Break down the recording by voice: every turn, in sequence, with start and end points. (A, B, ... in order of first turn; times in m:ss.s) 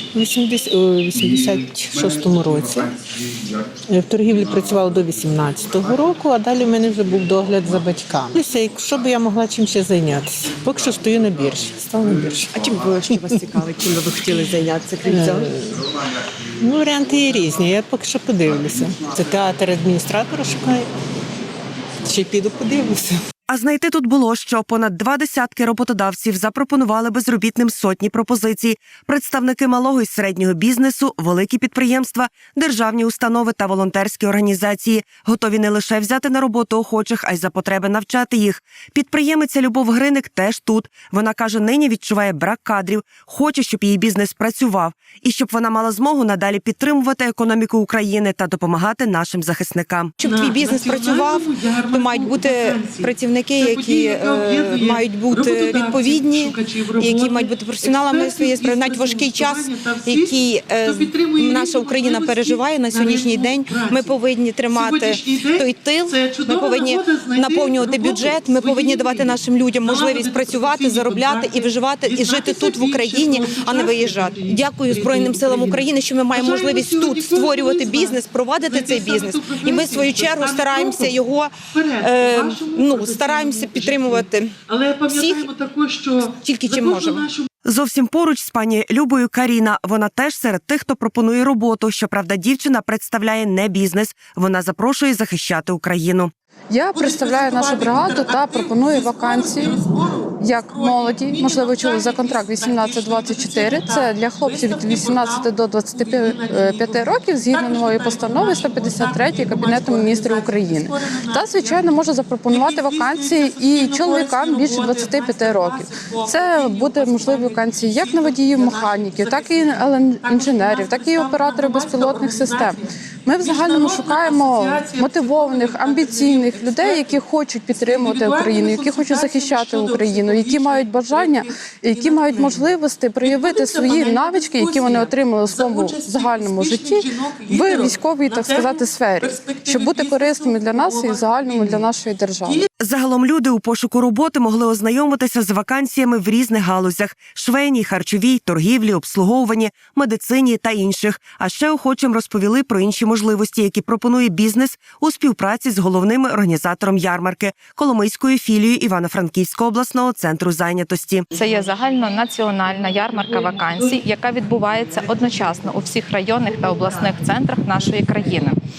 0:00.2-0:02.9 A
0:03.9-0:12.5 A
0:13.0-0:15.3 B
0:13.8-0:15.3 C
0:15.1-0:15.6 A
0:16.6-0:20.9 A
0:22.1-0:23.1 A
0:23.5-0:50.1 B
0:50.2-1:25.5 C
0:50.2-1:04.2 D
1:04.7-1:21.2 D
1:21.8-1:27.5 D
1:26.4-1:27.3 C
1:27.6-1:36.3 B
1:36.7-1:39.8 E
1:36.9-2:07.2 D
1:40.4-2:22.6 E
2:07.8-2:12.7 D
2:13.2-2:21.9 D
2:22.8-2:41.3 B
2:41.3-2:48.6 F